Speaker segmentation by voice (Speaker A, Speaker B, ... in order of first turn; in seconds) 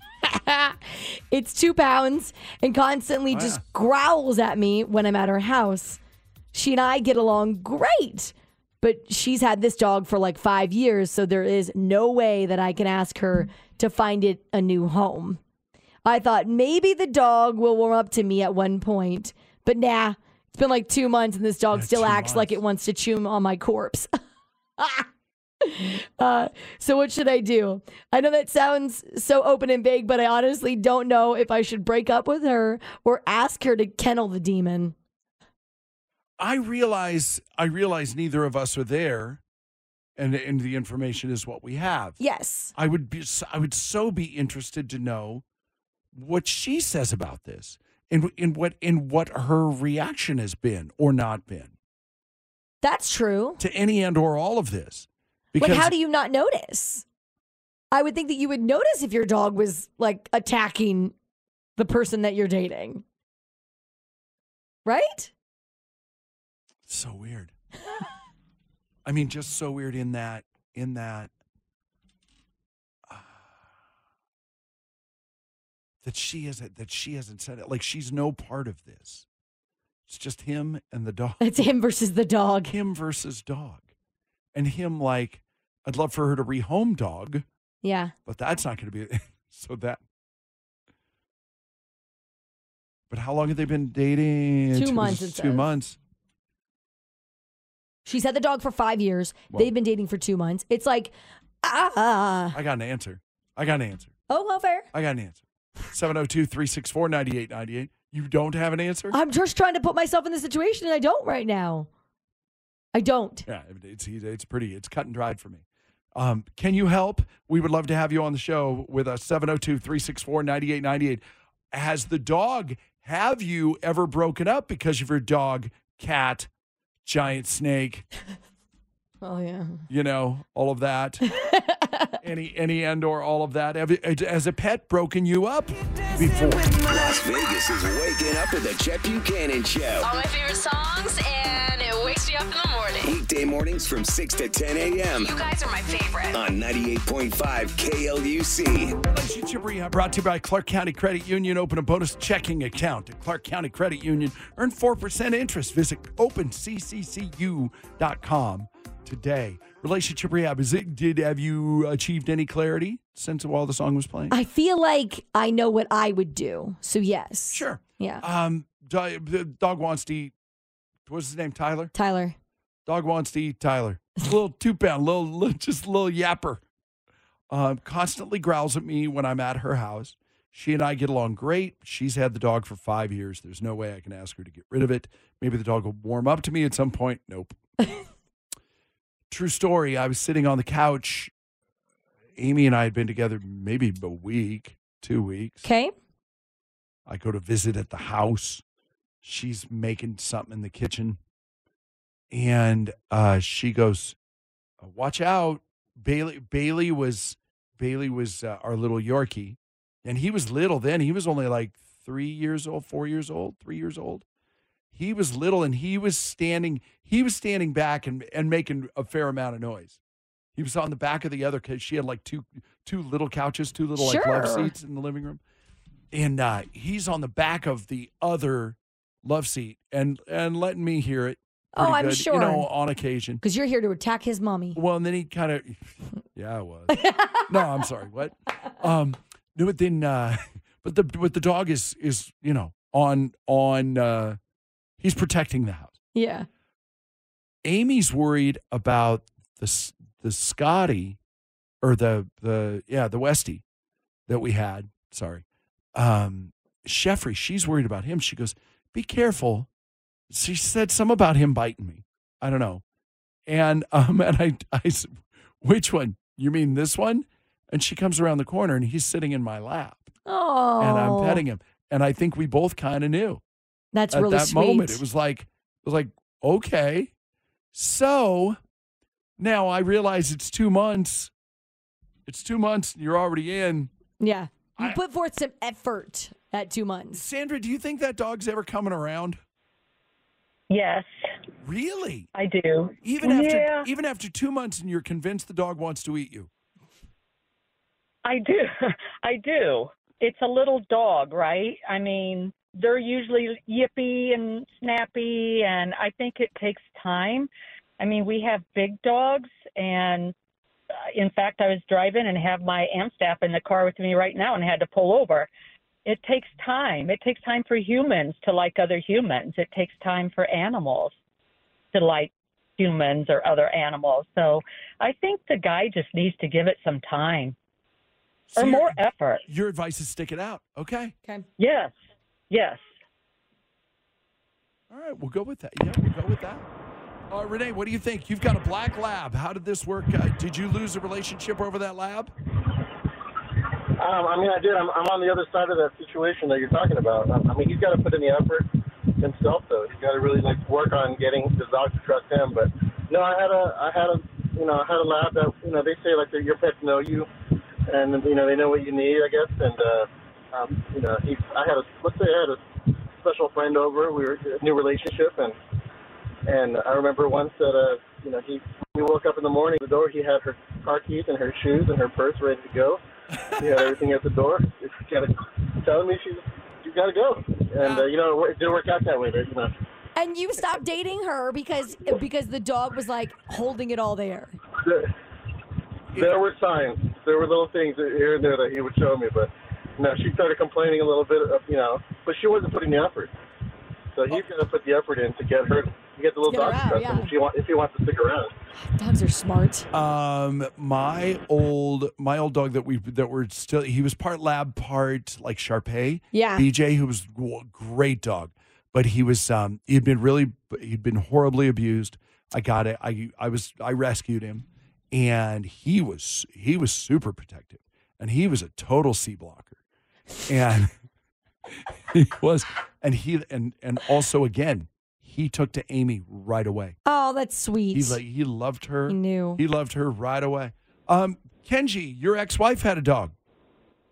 Speaker A: 0.2-6.0, 6.5-15.4, 16.1-24.1, 24.8-25.1, 25.6-35.0, 42.2-42.7, 52.8-53.6, 55.6-57.0, 57.9-61.1, 61.8-63.0, 64.9-65.3, 81.4-82.7, 87.8-88.1, 94.8-95.7, 98.0-102.6, 104.3-104.9, 109.1-111.9, 112.9-113.5, 129.2-129.8, 131.4-132.2, 164.3-168.2, 171.9-172.3, 195.6-195.9, 224.0-224.7, 231.8-232.7, 233.4-234.8, 236.9-237.7, 246.2-246.5, 270.3-271.4, 273.9-275.0, 284.2-287.2, 380.2-384.6, 396.5-397.3, 398.8-399.9, 406.3-406.7, 427.1-428.2, 429.1-429.6
Speaker B: 3.3-3.6, 21.7-22.6, 36.4-39.4, 40.2-42.2, 42.8-45.4, 46.1-51.7, 53.6-55.9, 66.9-67.5, 69.1-71.3, 73.1-73.6, 76.0-79.3, 80.1-81.7, 82.7-83.9, 84.5-87.4, 88.3-90.0, 93.1-96.0, 102.5-104.2, 104.9-109.2, 113.5-126.5, 127.0-128.1, 129.9-131.2, 132.2-136.8, 149.1-164.4, 167.5-170.3, 171.1-171.9, 172.9-176.6, 177.5-187.6, 189.3-191.3, 192.4-195.7, 197.1-198.6, 199.2-201.2, 202.3-204.2, 204.8-214.2, 214.9-220.0, 220.6-225.4, 226.1-233.4, 234.8-244.4, 245.0-245.9, 247.7-251.2, 251.8-253.6, 254.3-255.4, 255.9-259.7, 260.3-262.8, 263.5-265.1, 265.6-270.1, 270.8-273.4, 274.1-277.1, 277.7-278.6, 279.4-281.3, 282.3-283.9, 287.1-289.4, 291.6-292.3, 293.0-296.5, 328.5-331.1, 334.9-336.6, 337.3-342.3, 373.4-373.8, 377.8-378.1, 386.1-386.4, 399.9-419.8, 420.5-420.9, 422.1-427.0, 427.9-433.3
Speaker C: 136.8-140.1, 143.0-145.3, 146.3-149.0
Speaker D: 140.0-143.2, 145.2-146.4
Speaker E: 290.7-291.1, 292.4-293.8, 298.2-310.3, 311.1-315.5, 316.1-321.1, 321.9-327.6, 328.6-329.4, 331.6-331.9, 332.5-332.9
Speaker F: 344.0-348.7, 349.2-357.3, 357.9-362.6, 363.2-365.6, 366.5-373.0, 373.6-379.7, 384.8-385.1, 386.1-393.3, 394.2-398.5